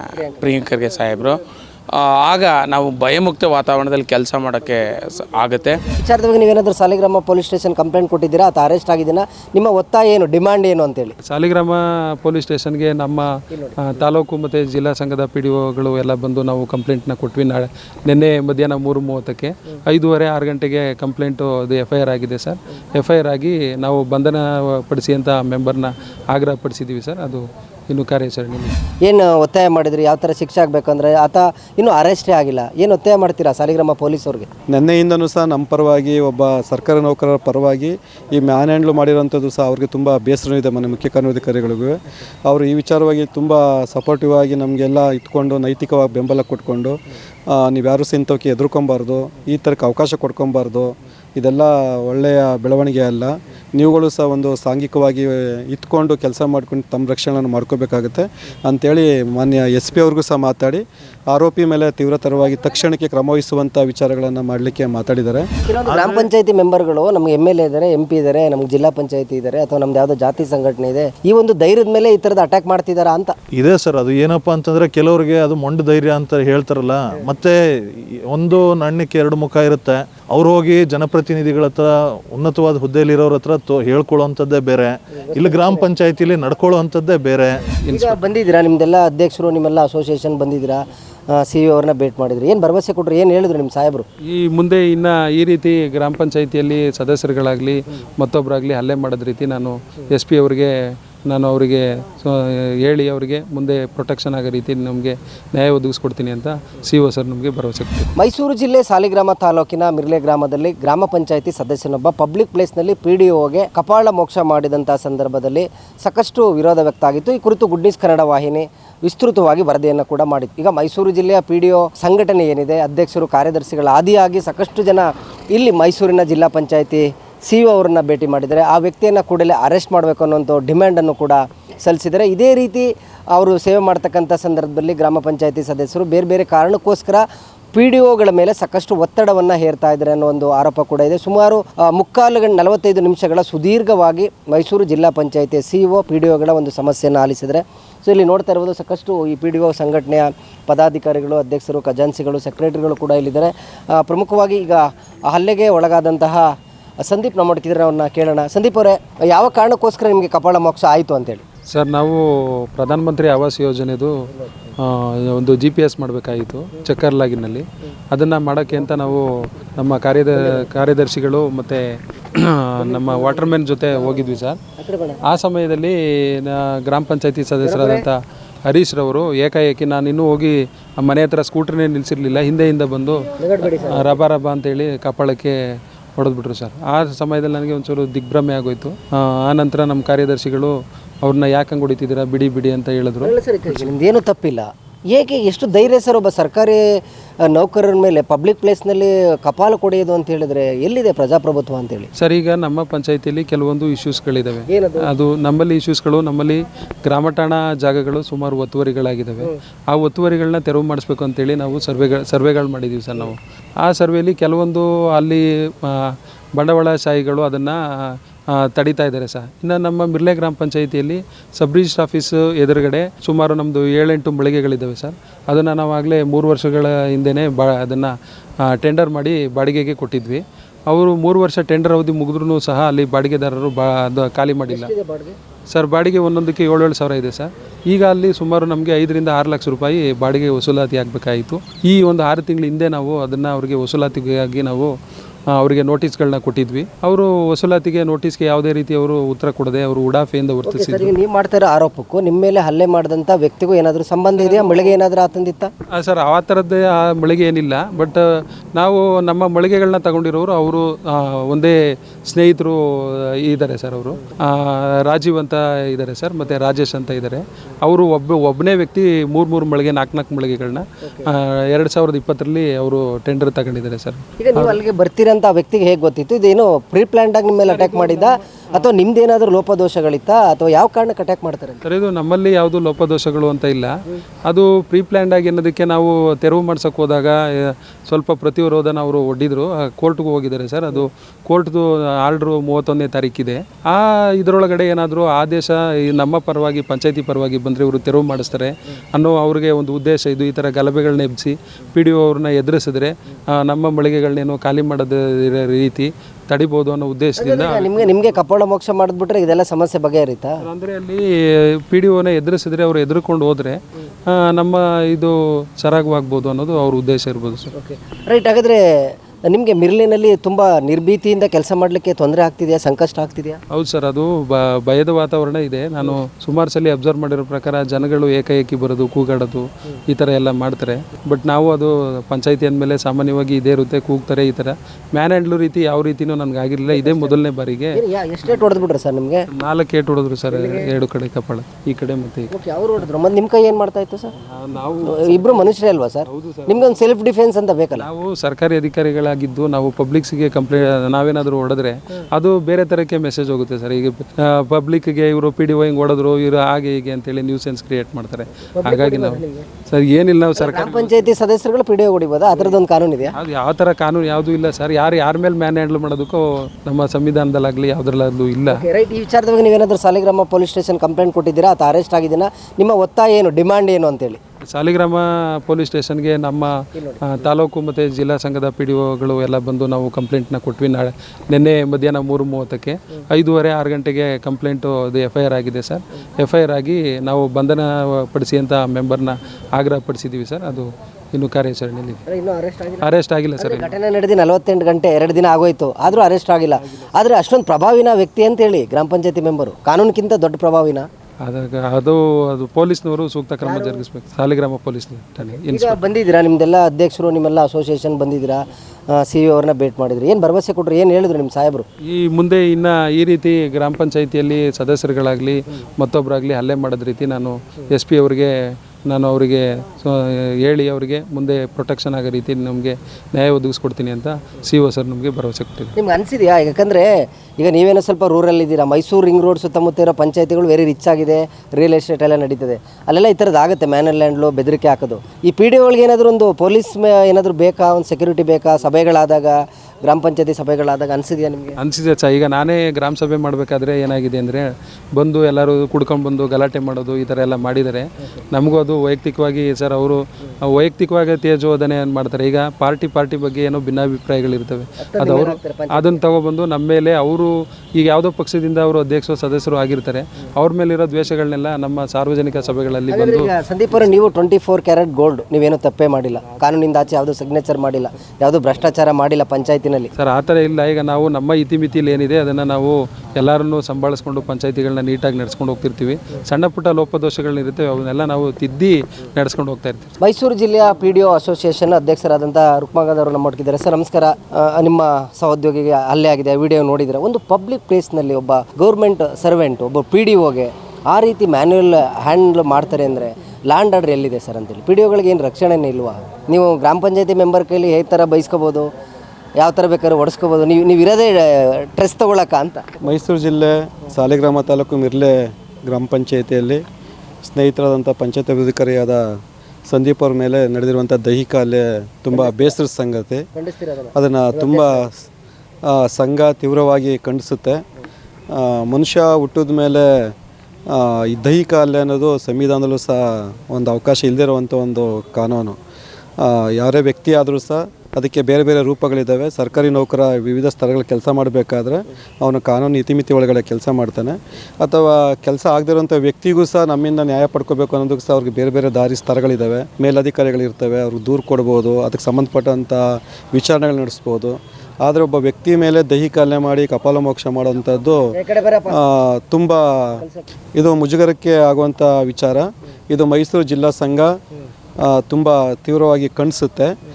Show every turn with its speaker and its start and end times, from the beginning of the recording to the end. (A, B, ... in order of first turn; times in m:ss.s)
0:00.4-0:01.4 A
0:01.9-0:05.8 A
0:05.9-0:11.2 B
0:11.2-0:28.7 C
0:29.0-0:34.5 B
0:34.7-1:05.5 D
1:05.6-1:13.4 B
1:05.8-1:06.3 E
1:13.5-1:27.7 E
1:25.3-1:25.8 B
1:27.8-1:28.2 C
1:27.9-1:34.1 B
1:34.2-1:40.7 C
1:41.3-1:48.1 C
1:48.2-2:41.4 B
2:41.7-2:44.2 C
2:44.8-2:54.6 C
2:52.8-2:53.4 B
2:54.8-2:55.2 B
2:55.2-3:05.6 C
2:57.6-2:58.0 B
3:03.4-3:04.1 B
3:06.2-3:13.3 C
3:13.2-3:22.1 B
3:22.2-3:54.9 C
3:24.7-3:25.1 B
3:54.7-3:55.4 B
3:55.7-4:04.9 C
4:05.5-4:11.1 C
4:10.6-4:15.7 B
4:14.4-4:14.9 C
4:15.9-4:18.2 C
4:18.8-4:34.8 C
4:34.4-4:41.8 B
4:37.7-4:38.4 C
4:41.8-4:43.9 C
4:44.4-5:08.1 C
5:07.4-5:10.6 B
5:10.6-5:17.7 C
5:17.7-5:23.6 B
5:23.7-5:38.0 C
5:36.9-5:37.4 B
5:37.9-5:39.4 B
5:39.6-5:42.5 C
5:40.5-5:40.9 B
5:42.5-5:44.3 B
5:44.5-5:46.9 C
5:45.1-5:48.1 B
5:48.0-6:01.3 C
5:58.8-5:59.7 B
6:00.6-6:03.3 B
6:03.3-6:08.8 C
6:08.7-6:14.4 B
6:14.7-6:32.2 C
6:32.3-6:33.0 B
6:33.0-6:33.9 C
6:33.6-6:41.1 B
6:41.4-6:46.0 C
6:43.6-6:44.0 B
6:45.6-6:51.9 B
6:52.0-6:58.5 C
6:59.1-7:05.9 C
7:06.0-7:21.8 B
7:21.8-7:43.5 C
7:35.0-7:36.2 B
7:43.1-7:50.1 B
7:50.2-8:00.1 C
8:00.2-8:18.9 B
8:19.6-8:22.8 B
8:23.0-8:26.8 D
8:27.4-8:33.4 D
8:32.3-8:32.7 B
8:33.5-8:35.0 B
8:34.1-8:35.2 D
8:35.8-8:37.8 D
8:38.5-8:40.3 D
8:40.9-8:45.8 D
8:46.4-9:08.3 D
9:08.3-9:09.0 B
9:08.9-9:10.2 D
9:10.2-9:10.4 B
9:10.8-9:14.4 D
9:15.0-9:17.0 D